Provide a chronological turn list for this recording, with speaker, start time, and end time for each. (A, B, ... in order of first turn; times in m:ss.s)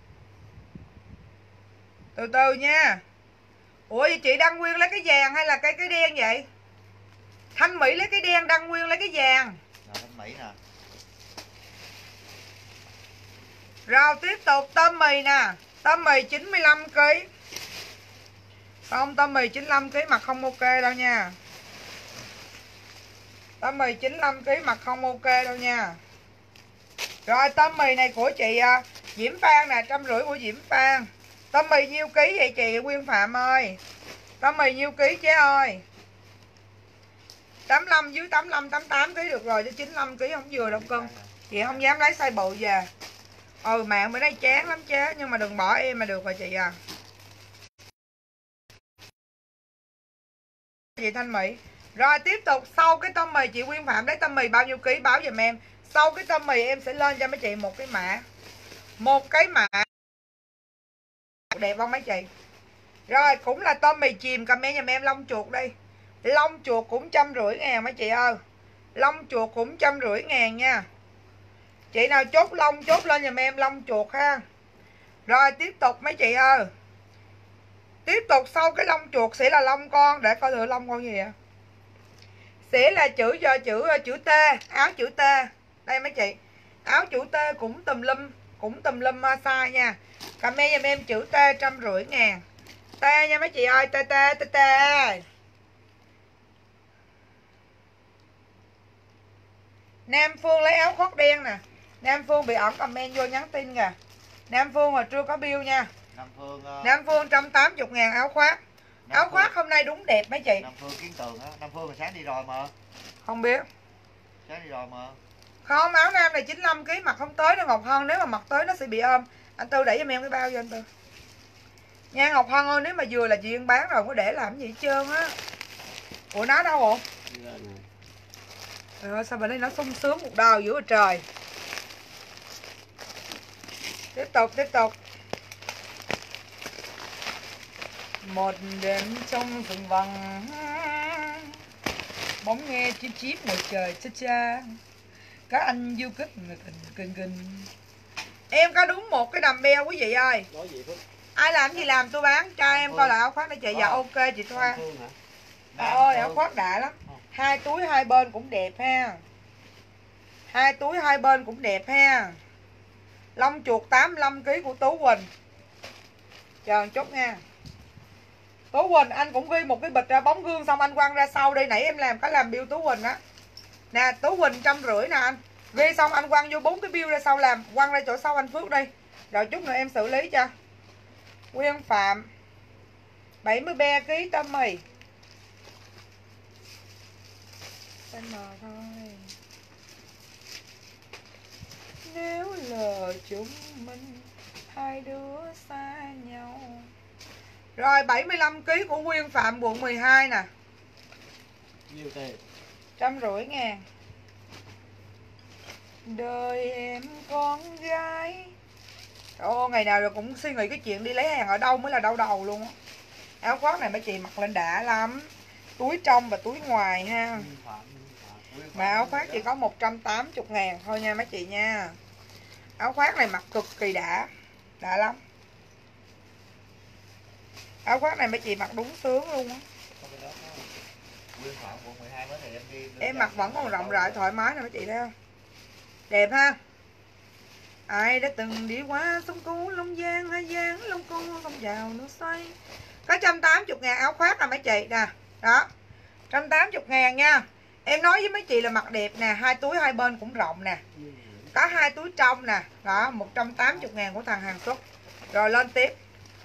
0:02.2-0:03.0 A
0:03.9-0:06.4 A
0:07.6-0:09.6 A
0:09.8-0:10.6 B
0:13.9-0:17.3 A
0:18.9-0:21.4 A
0:23.6-0:26.0 A
0:27.3-0:33.8 A
0:34.4-0:35.8 A
0:37.7-0:42.9 A
0:40.5-0:41.9 B
0:43.6-0:46.8 A
0:51.0-0:58.2 A
0:59.0-0:59.9 A
1:01.5-1:02.3 A
1:03.1-1:08.4 A
1:09.0-1:10.9 A
1:11.9-1:14.4 A
1:15.3-1:16.7 A
1:18.0-1:21.3 A
1:22.7-1:32.4 A
1:33.0-1:35.2 A
1:40.1-1:44.0 A
1:44.5-1:45.9 A
1:46.1-1:47.0 B
1:46.8-1:48.6 A
1:49.1-1:49.6 B
1:49.1-1:50.7 A
1:50.6-1:52.7 B
1:53.2-1:53.6 A
1:54.4-1:55.2 B
1:55.6-2:00.8 A
2:02.1-2:05.3 A
2:06.3-2:07.0 A
2:07.3-2:07.8 C
2:09.0-2:11.2 A
2:14.1-2:15.0 A
2:18.2-2:21.5 A
2:22.4-2:24.8 A
2:25.5-2:27.7 A
2:28.5-2:30.5 A
2:30.5-2:31.0 C
2:31.4-2:34.8 A
2:32.7-2:33.2 B
2:33.7-2:35.1 C
2:35.7-2:36.5 B
2:35.8-2:39.2 A
2:40.5-2:42.4 A
2:43.4-2:45.3 A
2:46.6-2:47.4 A
2:48.7-2:53.2 A
2:53.9-3:00.5 A
3:01.5-3:02.3 A
3:03.4-3:04.8 A
3:08.1-3:09.3 A
3:12.0-3:16.9 A
3:17.8-3:20.5 A
3:21.9-3:22.4 C
3:23.0-3:23.8 A
3:26.0-3:28.5 A
3:29.4-3:32.8 A
3:33.4-3:37.5 A
3:37.3-3:38.5 C
3:38.5-3:39.5 B
3:38.8-3:42.0 A
3:42.8-3:44.3 A
3:44.8-3:45.2 A
3:47.8-3:49.6 A
3:50.0-3:50.7 B
3:51.4-3:54.3 B
3:53.0-3:55.1 A
3:56.1-3:56.6 A
3:57.9-4:02.6 A
4:03.1-4:05.7 A
4:06.3-4:10.8 A
4:10.9-4:11.9 C
4:11.5-4:14.8 A
4:12.8-4:13.9 C
4:15.3-4:16.0 A